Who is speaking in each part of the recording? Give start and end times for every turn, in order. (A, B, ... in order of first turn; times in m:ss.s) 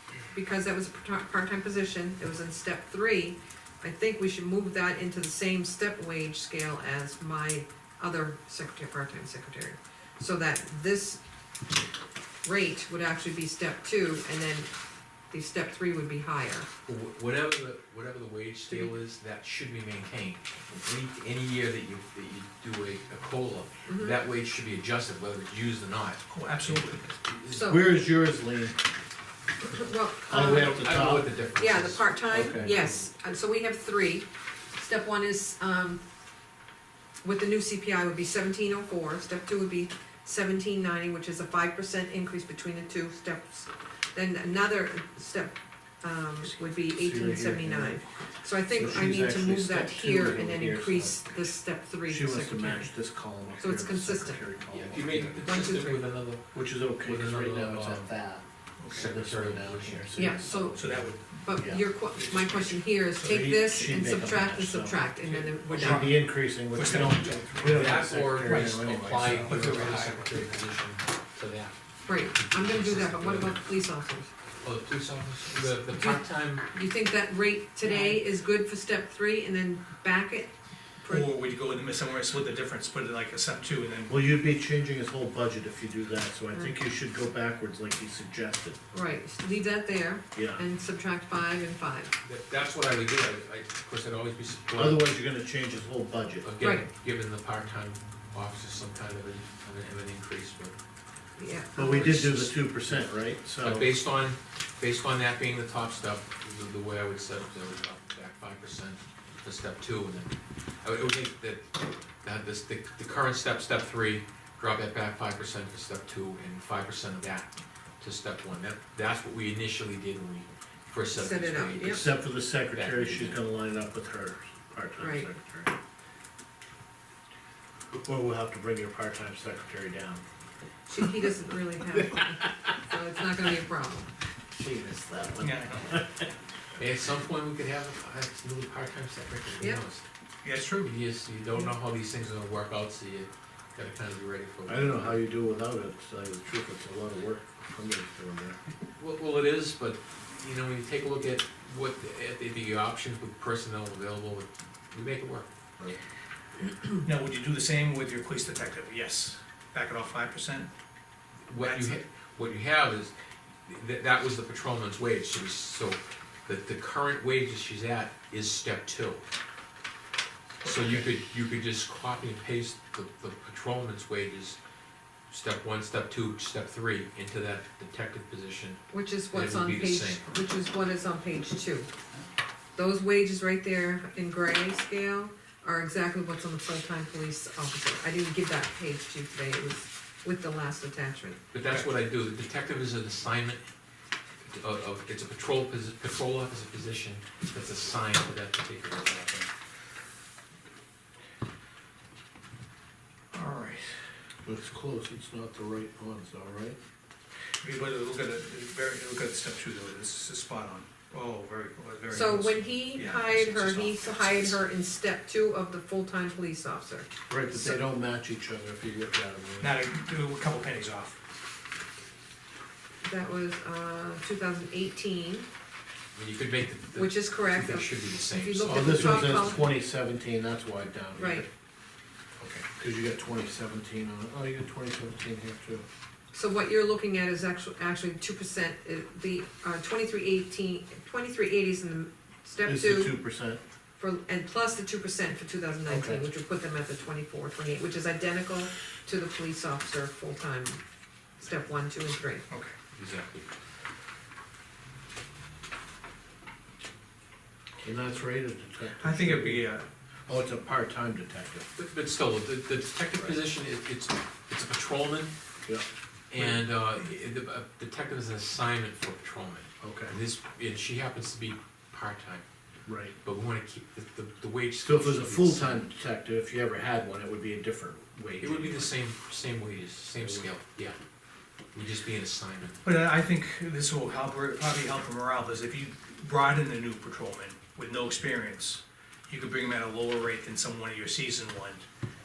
0:00.3-0:11.2 A
0:12.4-0:14.7 A
0:15.3-0:16.7 A
0:16.9-0:27.8 B
0:23.9-0:24.2 A
0:26.3-0:27.0 C
0:27.5-0:27.8 A
0:27.6-0:28.8 D
0:29.6-0:30.8 A
0:30.3-0:31.3 D
0:30.5-0:32.8 B
0:31.6-0:36.0 A
0:32.3-0:32.8 D
0:37.2-0:52.9 A
0:47.0-0:48.0 D
0:48.7-0:51.5 D
0:52.1-0:55.4 D
0:53.6-0:54.4 A
0:54.7-0:58.1 B
0:55.4-0:56.0 A
0:56.5-1:01.8 D
0:58.8-0:59.1 C
0:58.9-1:00.2 B
1:00.2-1:00.8 A
1:00.7-1:01.4 C
1:01.4-1:06.1 A
1:02.0-1:02.8 C
1:03.2-1:05.0 D
1:05.3-1:06.2 C
1:05.7-1:09.7 D
1:06.7-1:10.5 C
1:07.6-1:11.8 B
1:12.0-1:14.3 A
1:12.3-1:13.6 B
1:14.6-1:16.7 B
1:15.9-1:21.3 A
1:17.8-1:18.2 C
1:21.1-1:24.2 C
1:24.1-1:28.8 D
1:28.9-1:32.1 A
1:30.3-1:30.6 D
1:32.2-1:35.1 B
1:34.8-1:36.5 D
1:36.4-1:40.8 B
1:36.6-1:36.9 A
1:41.4-1:42.3 A
1:41.8-1:43.9 D
1:42.0-1:42.6 B
1:43.6-2:03.4 B
2:01.2-2:02.0 A
2:01.8-2:05.8 D
2:05.0-2:05.3 A
2:08.0-2:10.2 D
2:10.9-2:14.1 A
2:12.0-2:12.5 D
2:14.5-2:16.3 D
2:15.4-2:15.9 C
2:16.8-2:20.0 B
2:20.4-2:20.9 C
2:20.8-2:25.2 B
2:24.7-2:28.6 D
2:29.0-2:35.5 B
2:37.0-2:40.7 C
2:41.5-2:43.1 B
2:41.6-2:42.0 C
2:43.7-2:49.3 B
2:50.6-2:51.1 C
2:50.6-2:54.6 B
2:55.3-3:00.2 B
2:58.9-3:01.9 A
3:02.8-3:11.4 A
3:11.5-3:13.6 B
3:14.5-3:19.5 B
3:23.3-3:24.0 C
3:24.4-3:26.8 D
3:27.6-3:34.6 C
3:32.1-3:37.8 A
3:37.3-3:39.8 D
3:39.6-3:41.2 C
3:43.0-3:45.5 A
3:46.1-3:49.7 B
3:46.9-3:49.6 A
3:48.7-3:51.5 D
3:51.2-3:51.4 A
3:52.5-3:55.8 D
3:56.3-4:03.2 A
4:02.6-4:03.6 D
4:04.0-4:10.8 A
4:05.9-4:06.2 D
4:11.4-4:12.5 A
4:12.9-4:13.4 B
4:17.8-4:19.7 D
4:19.0-4:19.9 C
4:20.3-4:21.7 D
4:21.8-4:25.3 B
4:26.3-4:32.4 B
4:29.8-4:30.1 D
4:32.9-4:33.2 D
4:33.2-4:35.8 B
4:34.8-4:38.9 D
4:38.4-4:41.0 B
4:40.2-4:40.5 D
4:41.7-4:42.8 B
4:42.8-4:51.9 C